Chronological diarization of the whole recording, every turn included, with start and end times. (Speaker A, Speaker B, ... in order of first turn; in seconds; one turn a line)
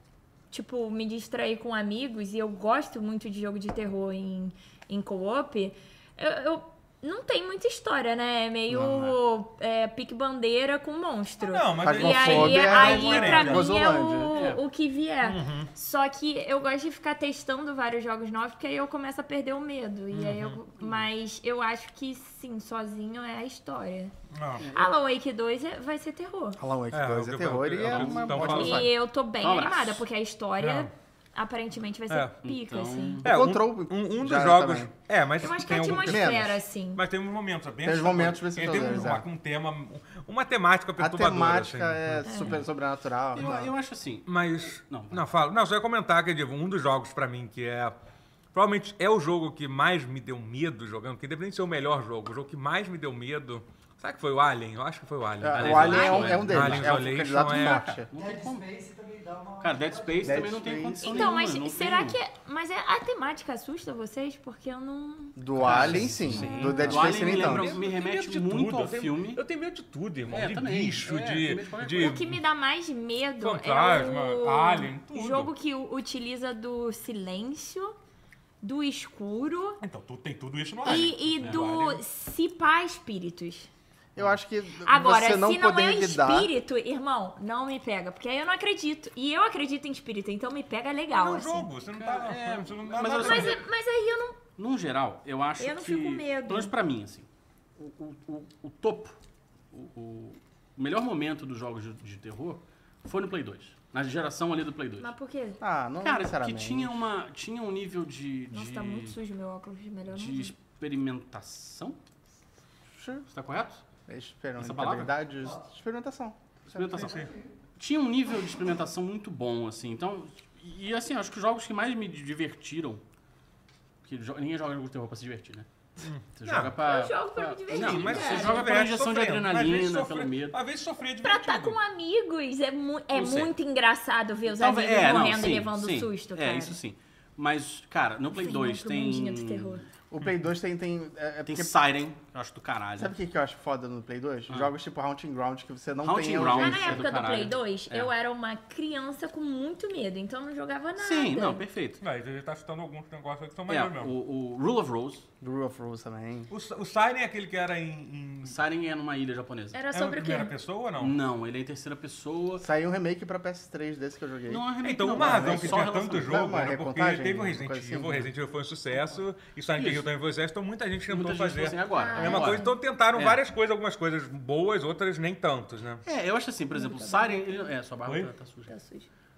Speaker A: 0.5-24.1
Speaker B: 8.7-9.2
Speaker C: 11.4-13.7
Speaker B: 11.8-14.4
Speaker D: 14.3-14.6
Speaker C: 15.2-15.7
Speaker C: 20.1-20.6
Speaker C: 24.3-24.7
Speaker A: 24.7-26.6
Speaker B: 26.6-28.9
Speaker C: 26.9-28.9
Speaker D: 27.8-28.9
Speaker A: 28.5-33.2
Speaker D: 29.4-30.0
Speaker C: 30.6-30.9
Speaker C: 32.1-32.3
Speaker D: 32.4-33.3
Speaker C: 33.2-36.3
Speaker B: 33.2-34.9
Speaker A: 35.4-37.0
Speaker B: 35.9-36.6
Speaker C: 36.9-42.3
Speaker B: 37.8-39.2
Speaker B: 41.0-43.7
Speaker A: 42.2-42.6
Speaker D: 42.4-42.7
Speaker D: 43.3-44.3
Speaker C: 44.2-47.9
Speaker D: 44.9-45.2
Speaker C: 48.5-57.9
Speaker B: 55.4-58.1
Speaker D: 55.5-58.6
Speaker A: 55.8-56.4
Speaker E: 58.1-60.7
Speaker D: 59.6-62.2
Speaker B: 60.2-61.3
Speaker A: 61.0-65.4
Speaker B: 65.4-67.8
Speaker D: 65.6-69.4
Speaker C: 65.6-72.4
Speaker A: 66.4-66.7
Speaker D: 70.3-72.2
Speaker A: 72.0-77.9
Speaker C: 73.4-75.5
Speaker A: 78.6-79.8
Speaker C: 79.8-81.8
Speaker A: 80.8-83.7
Speaker D: 80.9-82.0
Speaker B: 84.2-86.5
Speaker A: 84.8-91.7
Speaker C: 91.1-93.6
Speaker D: 91.9-93.6
Speaker A: 93.1-94.4
Speaker D: 94.6-97.3
Speaker A: 95.6-96.7
Speaker D: 97.8-99.2
Speaker D: 99.7-105.1
Speaker A: 105.0-105.6
Speaker B: 105.6-106.9
Speaker D: 106.0-109.2
Speaker A: 108.5-110.5
Speaker D: 110.1-112.0
Speaker B: 112.9-113.2
Speaker D: 113.3-113.8
Speaker B: 114.1-116.9
Speaker D: 114.6-115.1
Speaker D: 116.7-123.0
Speaker E: 116.9-117.5
Speaker C: 117.0-117.3
Speaker D: 124.0-125.7
Speaker C: 126.0-126.8
Speaker D: 126.3-130.6
Speaker A: 126.8-128.8
Speaker C: 127.7-131.8
Speaker A: 131.2-136.8
Speaker D: 133.1-133.5
Speaker D: 134.6-139.8
Speaker A: 138.3-139.8
Speaker B: 140.1-141.7
Speaker D: 141.4-143.1
Speaker B: 143.0-147.1
Speaker D: 146.0-148.1
Speaker A: 146.6-151.6
Speaker D: 151.0-152.0
Speaker C: 152.0-154.1
Speaker D: 153.7-155.3
Speaker B: 155.4-156.5
Speaker C: 156.5-158.6
Speaker D: 158.4-159.8
Speaker A: 159.7-160.5
Speaker C: 159.9-161.2
Speaker D: 161.0-162.6
Speaker B: 162.6-168.2
Speaker D: 164.5-166.5
Speaker C: 164.8-176.0
Speaker D: 169.8-170.1
Speaker D: 171.1-173.4
Speaker A: 171.9-172.7
Speaker D: 176.0-178.7
Speaker A: 176.7-177.7
Speaker A: 178.7-179.1